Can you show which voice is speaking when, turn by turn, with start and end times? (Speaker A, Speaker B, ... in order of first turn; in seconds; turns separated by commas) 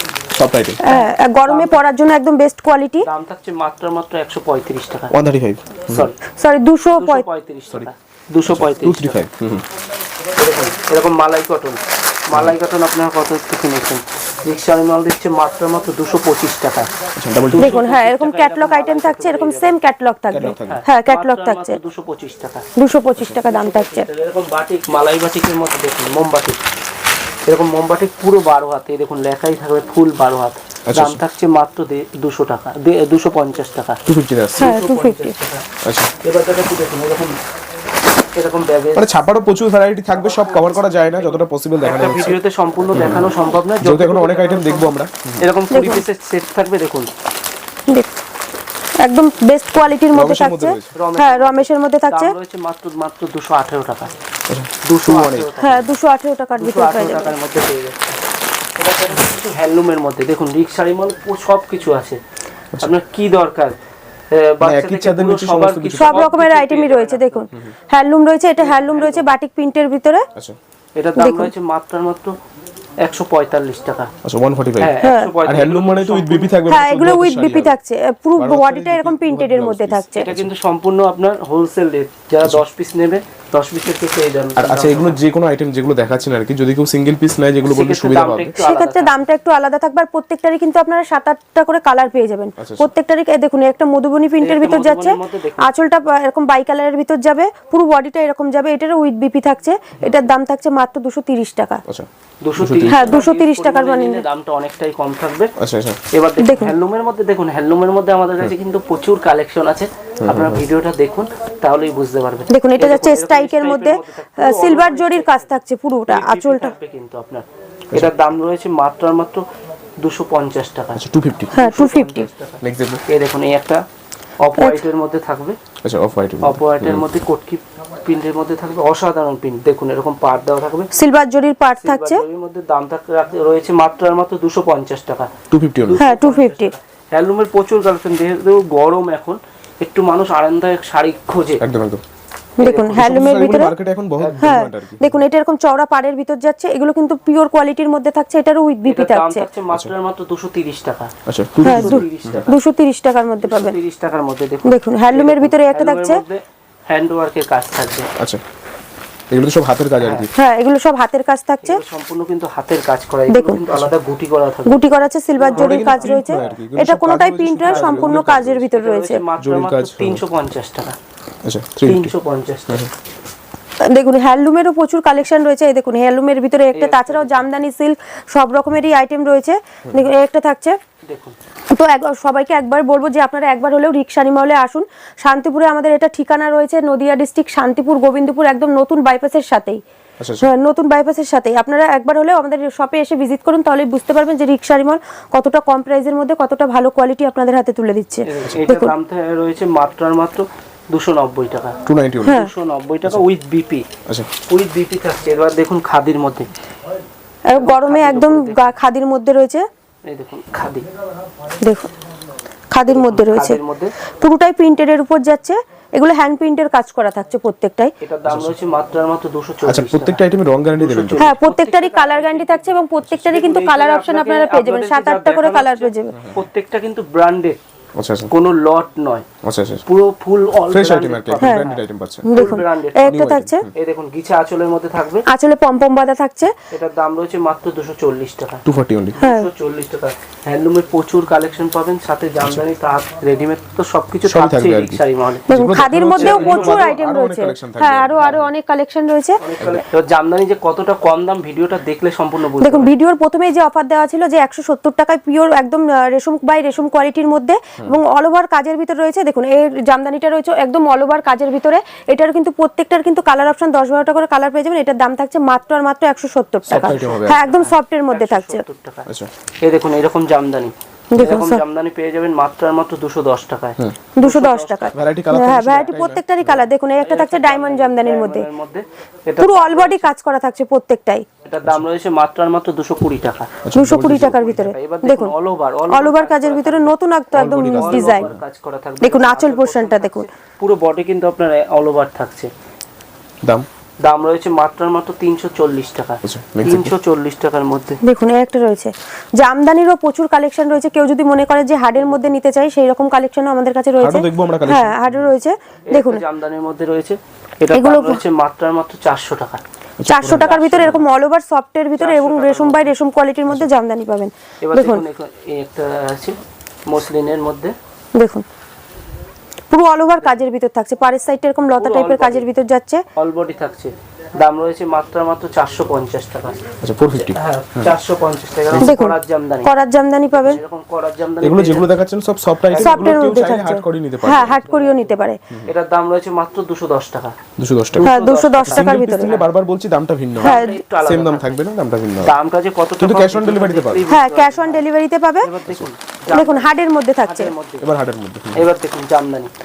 Speaker A: 0.3-0.8, Speaker B: 0.8-3.0, Speaker C: 0.9-1.8, Speaker C: 3.0-5.1, Speaker A: 5.1-6.1, Speaker C: 5.9-6.2, Speaker B: 6.4-7.3, Speaker C: 6.9-9.2, Speaker A: 8.5-9.7, Speaker C: 10.4-16.9, Speaker A: 17.2-17.7, Speaker C: 17.5-19.7, Speaker B: 17.6-21.8, Speaker A: 20.3-20.8, Speaker C: 20.6-22.7, Speaker B: 22.8-24.1, Speaker C: 23.3-26.6, Speaker C: 27.5-34.0, Speaker A: 30.9-31.2, Speaker A: 34.1-34.7, Speaker C: 34.6-35.6, Speaker B: 34.6-35.3, Speaker A: 35.9-36.1, Speaker C: 36.2-37.4, Speaker C: 38.3-39.2, Speaker A: 39.0-42.4, Speaker C: 40.1-47.1, Speaker A: 42.9-45.4, Speaker B: 45.7-46.0, Speaker B: 49.0-52.4, Speaker A: 50.0-50.9, Speaker C: 51.0-54.1, Speaker A: 54.5-55.5, Speaker C: 54.8-55.9, Speaker B: 55.6-57.4, Speaker C: 56.6-58.2, Speaker C: 58.8-62.2, Speaker C: 62.8-63.8, Speaker C: 64.3-67.5, Speaker A: 64.6-66.4, Speaker B: 65.9-70.3, Speaker C: 68.6-69.3, Speaker C: 71.0-72.3, Speaker B: 71.2-71.5, Speaker C: 73.0-74.1, Speaker A: 74.2-77.8, Speaker C: 74.8-76.5, Speaker B: 75.0-75.3, Speaker B: 76.7-80.3, Speaker A: 78.4-80.5, Speaker C: 80.2-85.2, Speaker A: 84.6-88.5, Speaker C: 87.7-89.2, Speaker B: 88.6-101.8, Speaker A: 92.6-92.9, Speaker C: 94.4-95.7, Speaker A: 101.9-103.1, Speaker C: 102.4-105.5, Speaker B: 102.9-104.2, Speaker A: 105.6-106.0, Speaker C: 106.1-115.5, Speaker B: 106.4-106.7, Speaker A: 110.2-110.7, Speaker B: 112.5-116.7, Speaker C: 116.1-119.5, Speaker A: 117.9-118.2, Speaker C: 120.0-123.8, Speaker A: 121.0-121.5, Speaker B: 121.5-122.3, Speaker A: 122.6-123.0, Speaker C: 124.4-125.6, Speaker A: 125.8-127.1, Speaker C: 126.4-130.9, Speaker B: 130.9-132.2, Speaker C: 131.8-135.3, Speaker A: 135.5-136.0, Speaker C: 135.8-141.6, Speaker B: 136.0-136.7, Speaker A: 141.6-142.0, Speaker B: 142.6-143.8, Speaker C: 142.6-143.2, Speaker A: 143.0-145.2, Speaker C: 144.2-144.6, Speaker B: 144.4-149.5, Speaker C: 148.9-151.1, Speaker A: 151.3-152.5, Speaker C: 151.6-152.6, Speaker B: 151.6-153.8, Speaker C: 153.4-158.1, Speaker B: 154.7-156.2, Speaker A: 159.3-160.3, Speaker C: 160.0-160.3, Speaker B: 160.3-161.8, Speaker C: 161.6-164.8, Speaker B: 163.3-163.6, Speaker B: 164.7-169.2, Speaker C: 165.4-166.6, Speaker A: 165.5-168.6, Speaker C: 167.7-171.0, Speaker A: 169.4-170.2, Speaker A: 171.4-172.1, Speaker C: 171.8-172.9, Speaker B: 173.9-180.8, Speaker C: 176.7-177.4, Speaker C: 181.1-181.4, Speaker B: 181.7-189.8, Speaker A: 190.2-190.5, Speaker B: 190.4-198.9, Speaker C: 198.2-203.9, Speaker A: 201.9-202.4, Speaker B: 202.2-202.5, Speaker C: 204.5-206.5, Speaker B: 207.5-209.6, Speaker C: 207.5-208.7, Speaker C: 210.1-210.9, Speaker B: 211.6-211.9, Speaker B: 212.7-213.6, Speaker C: 212.9-213.9, Speaker B: 214.2-217.9, Speaker C: 218.0-220.2, Speaker A: 218.2-218.5, Speaker A: 219.6-221.3, Speaker C: 220.8-227.6, Speaker B: 221.2-226.2, Speaker A: 226.1-226.4, Speaker A: 228.0-228.3, Speaker C: 228.3-229.2, Speaker A: 229.4-229.8, Speaker C: 229.9-233.2, Speaker A: 230.7-232.3, Speaker B: 231.4-231.7, Speaker B: 232.2-233.7, Speaker A: 233.1-233.7, Speaker C: 233.7-235.2, Speaker B: 235.3-236.5, Speaker C: 236.7-238.6, Speaker A: 238.7-239.2, Speaker C: 239.2-245.4, Speaker B: 239.2-239.5, Speaker A: 244.2-248.5, Speaker B: 245.5-249.4, Speaker C: 246.2-246.9, Speaker C: 249.4-252.9, Speaker B: 252.6-268.6, Speaker A: 266.7-267.4, Speaker C: 266.7-269.1, Speaker C: 269.6-275.0, Speaker B: 271.1-271.6, Speaker B: 274.1-278.5, Speaker A: 274.9-276.6, Speaker C: 277.0-280.1, Speaker B: 279.4-281.3, Speaker C: 281.4-283.5, Speaker A: 283.6-284.6, Speaker B: 283.7-285.3, Speaker C: 284.4-292.5, Speaker B: 285.9-288.3, Speaker A: 287.3-288.4, Speaker B: 289.0-290.3, Speaker C: 294.0-298.0, Speaker A: 296.2-296.9, Speaker B: 298.0-306.2, Speaker C: 301.9-302.3, Speaker A: 304.0-305.3, Speaker C: 305.9-309.6, Speaker B: 307.7-308.2, Speaker A: 310.0-311.0, Speaker B: 310.1-315.0, Speaker C: 310.3-311.0, Speaker C: 312.0-313.0, Speaker C: 314.6-317.7, Speaker B: 318.2-318.4, Speaker B: 319.7-323.0, Speaker C: 321.8-322.5, Speaker C: 323.2-329.7, Speaker A: 326.8-327.9, Speaker B: 328.8-330.6, Speaker C: 330.3-331.9, Speaker A: 331.4-334.6, Speaker C: 332.7-333.4, Speaker B: 332.8-335.4, Speaker C: 334.6-337.4, Speaker A: 337.6-338.1, Speaker C: 337.9-339.4, Speaker B: 338.0-339.4, Speaker A: 338.6-342.4, Speaker C: 340.4-341.6, Speaker B: 340.4-340.8, Speaker C: 342.2-344.8, Speaker A: 343.0-344.1, Speaker B: 344.1-345.5, Speaker C: 345.4-346.7, Speaker B: 346.3-347.5, Speaker C: 347.2-347.8, Speaker A: 347.8-348.6, Speaker C: 348.6-349.5